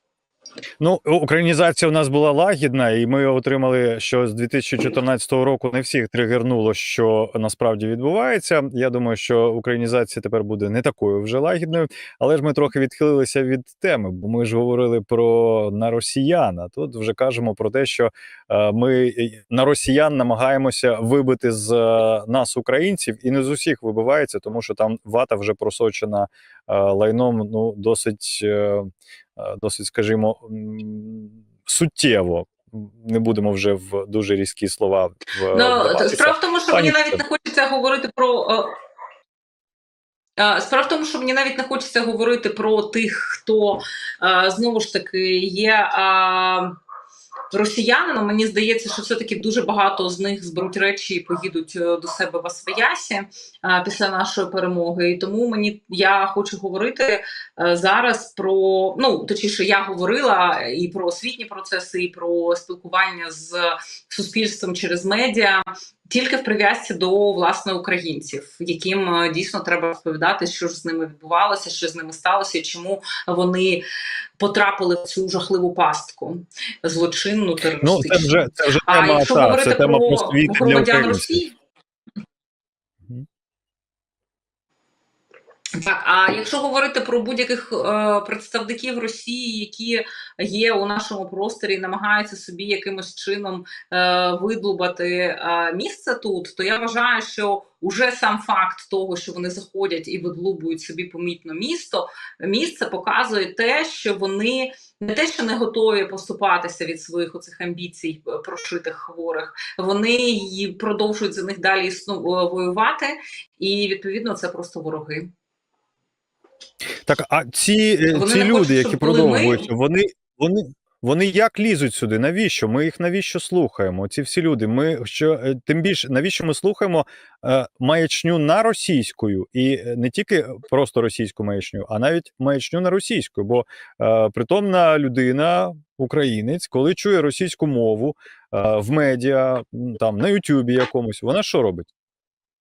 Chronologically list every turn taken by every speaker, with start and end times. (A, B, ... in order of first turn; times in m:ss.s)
0:00.8-0:37.2 A
0:35.5-0:38.7 B
0:40.4-0:46.7 B
0:47.5-1:13.8 B
1:14.4-1:21.5 B
1:17.8-1:21.4 A
1:25.8-1:55.3 B
1:57.1-2:21.9 A
1:58.1-1:59.7 B